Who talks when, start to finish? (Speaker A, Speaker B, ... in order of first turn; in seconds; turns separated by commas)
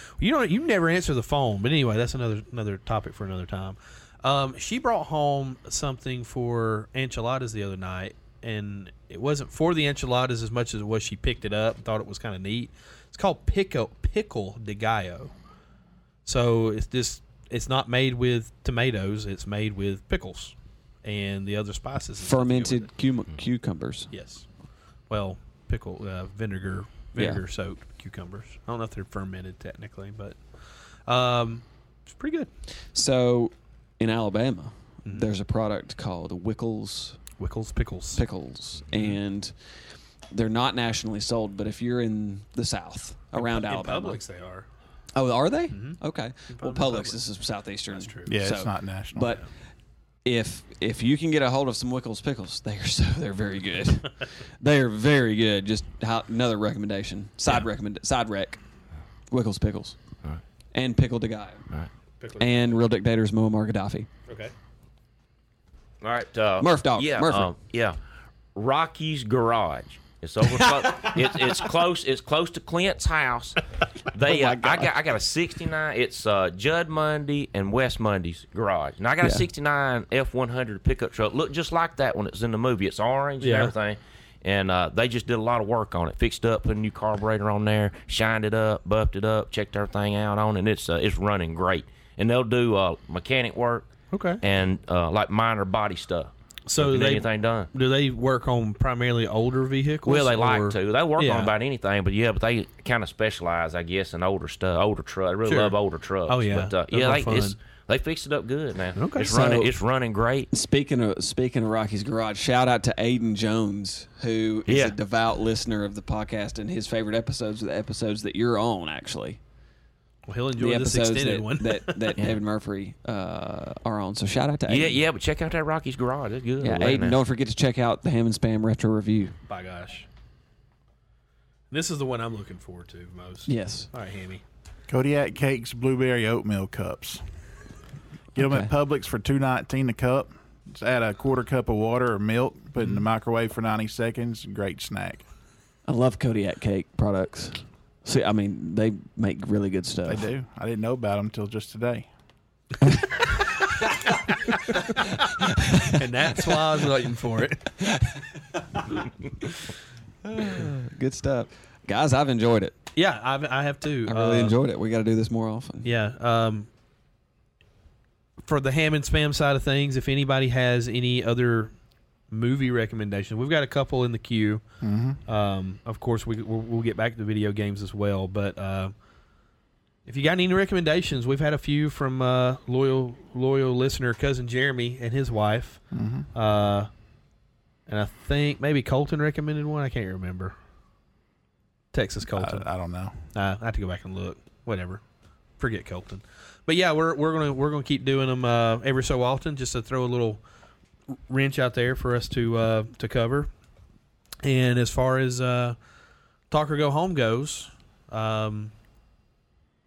Speaker A: 0.2-15.3, Speaker A: 16.2-22.9, Speaker B: 22.2-24.1, Speaker A: 24.1-24.5, Speaker A: 25.1-32.5, Speaker B: 27.2-27.4, Speaker B: 32.9-37.2, Speaker A: 35.0-35.3, Speaker A: 37.4-38.2, Speaker B: 38.1-39.5, Speaker A: 38.9-39.2, Speaker B: 40.3-44.2, Speaker A: 43.3-44.7, Speaker B: 45.1-49.5, Speaker A: 45.7-47.2, Speaker A: 47.9-48.3, Speaker C: 48.3-49.4, Speaker B: 50.2-58.6, Speaker B: 59.3-60.0, Speaker B: 60.7-61.6, Speaker A: 62.2-62.8, Speaker B: 62.4-64.1, Speaker A: 64.3-64.5, Speaker D: 66.0-68.0, Speaker B: 66.6-67.5, Speaker D: 68.5-73.6, Speaker B: 70.4-71.7, Speaker D: 74.1-93.9, Speaker B: 74.2-74.9, Speaker A: 83.4-83.7, Speaker A: 94.1-94.4, Speaker D: 94.4-97.7, Speaker A: 96.7-101.5, Speaker D: 100.1-110.5, Speaker A: 105.5-105.8, Speaker A: 106.3-107.6, Speaker A: 109.0-109.3, Speaker B: 109.2-109.8, Speaker B: 110.5-119.4, Speaker D: 114.7-115.0, Speaker A: 120.3-122.1, Speaker B: 120.6-125.0, Speaker D: 124.7-127.2, Speaker B: 126.6-129.3, Speaker A: 129.5-130.1, Speaker A: 131.7-134.4, Speaker B: 133.5-133.9, Speaker C: 134.9-137.2, Speaker B: 138.3-138.7, Speaker C: 138.3-145.2, Speaker B: 145.9-150.3, Speaker C: 150.1-152.1, Speaker B: 152.8-153.2, Speaker A: 154.5-155.1, Speaker B: 155.2-156.7, Speaker A: 155.8-157.8, Speaker B: 157.8-159.1, Speaker B: 160.2-162.8, Speaker A: 162.9-164.6, Speaker B: 164.1-165.9, Speaker A: 165.8-166.7, Speaker A: 168.4-171.8, Speaker A: 172.3-174.6, Speaker C: 174.8-175.2, Speaker A: 175.3-178.9, Speaker A: 180.1-185.8, Speaker C: 185.9-186.3, Speaker A: 186.3-186.9, Speaker A: 187.9-190.6, Speaker A: 191.9-192.7, Speaker C: 192.3-193.2, Speaker A: 193.3-195.0, Speaker A: 195.6-200.4, Speaker A: 201.3-203.5, Speaker A: 204.4-205.8, Speaker A: 206.5-208.7